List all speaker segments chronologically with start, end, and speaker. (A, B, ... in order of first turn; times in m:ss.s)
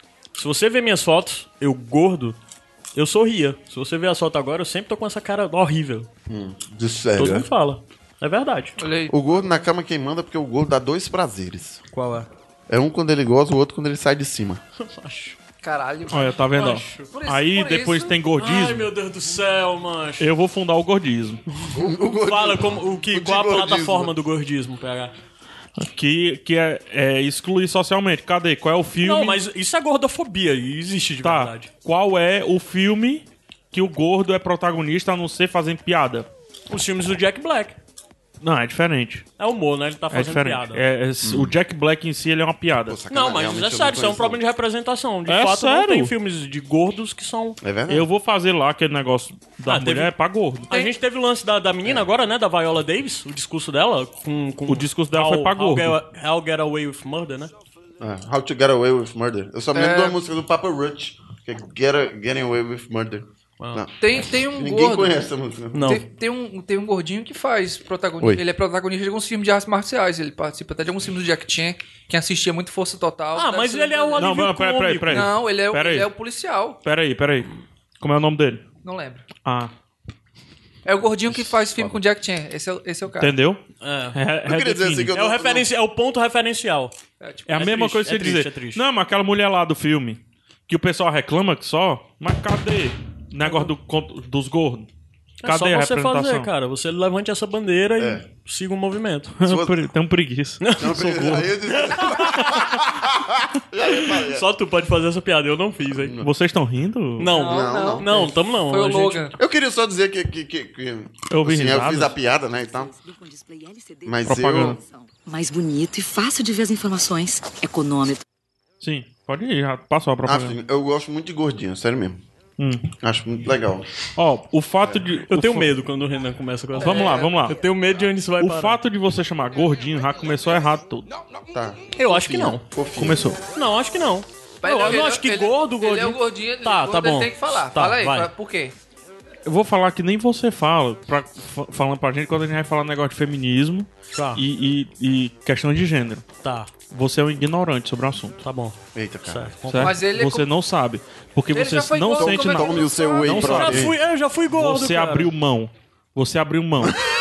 0:00.3-0:02.4 A
0:02.9-0:06.1 A
0:06.3-0:07.5 B
0:07.2-0:08.8 A
0:08.8-0:09.6 C
0:09.1-0:11.8 B
0:11.9-0:12.3 A
0:12.7-0:14.6 B
0:14.8-0:15.4 A
0:15.6-0:18.2 C
0:16.1-0:18.9 D
0:16.6-0:17.1 A
0:18.4-0:20.3 A
0:20.2-0:21.4 D
0:21.6-0:25.1 A
0:21.7-0:24.1 B
0:25.8-0:29.4 D
0:29.0-0:31.7 A
0:31.2-0:36.3 D
0:36.7-0:37.8 A
0:38.4-0:39.2 D
0:39.4-0:40.8 A
0:40.1-0:43.0 D
0:41.2-0:41.5 B
0:42.8-0:44.4 B
0:43.1-0:47.6 A
0:45.3-0:46.1 D
0:47.6-0:48.1 B
0:47.9-0:50.7 D
0:49.6-0:50.1 A
0:50.7-0:57.5 A
0:54.7-0:56.0 D
0:58.0-1:03.9 B
0:59.7-1:00.2 C
1:03.6-1:03.8 A
1:04.0-1:05.2 C
1:04.5-1:06.0 B
1:05.7-1:06.0 A
1:05.8-1:14.4 C
1:13.3-1:15.4 A
1:14.2-1:16.1 D
1:15.1-1:16.8 C
1:16.8-1:17.5 D
1:18.0-1:18.6 D
1:18.8-1:19.2 C
1:19.4-1:19.7 D
1:20.8-1:23.4 C
1:23.2-1:23.6 D
1:23.8-1:24.2 A
1:24.1-1:25.1 D
1:24.4-1:25.7 B
1:25.1-1:26.9 A
1:27.2-1:27.5 C
1:27.5-1:34.9 D
1:27.6-1:28.8 A
1:33.4-1:33.7 A
1:35.4-1:39.4 A
1:35.4-1:36.5 D
1:38.0-1:38.2 B
1:39.4-1:41.3 D
1:39.4-1:39.8 B
1:40.6-1:42.6 A
1:40.8-1:44.4 B
1:44.1-1:46.2 A
1:46.0-1:46.3 B
1:46.2-1:47.3 D
1:47.2-1:49.3 A
1:47.3-1:49.4 C
1:47.3-1:48.1 B
1:49.4-1:52.9 B
1:51.3-1:52.1 D
1:52.6-1:58.2 E
1:54.0-1:54.8 B
1:54.2-1:54.8 D
1:58.8-2:00.6 D
2:00.2-2:02.2 B
2:02.6-2:02.8 D
2:03.0-2:03.9 B
2:04.2-2:05.7 D
2:05.3-2:08.8 A
2:06.7-2:07.6 D
2:06.8-2:07.3 C
2:08.4-2:11.1 D
2:11.5-2:13.3 B
2:12.0-2:12.6 A
2:13.0-2:13.4 D
2:13.5-2:18.3 A
2:14.6-2:18.7 C
2:19.4-2:26.2 D
2:24.1-2:24.4 A
2:26.4-2:26.7 A
2:26.9-2:28.4 D
2:28.4-2:30.0 A
2:28.9-2:29.5 B
2:29.7-2:33.9 D
2:29.8-2:30.5 C
2:31.5-2:33.6 C
2:32.2-2:34.0 B
2:33.3-2:35.3 A
2:34.5-2:37.0 D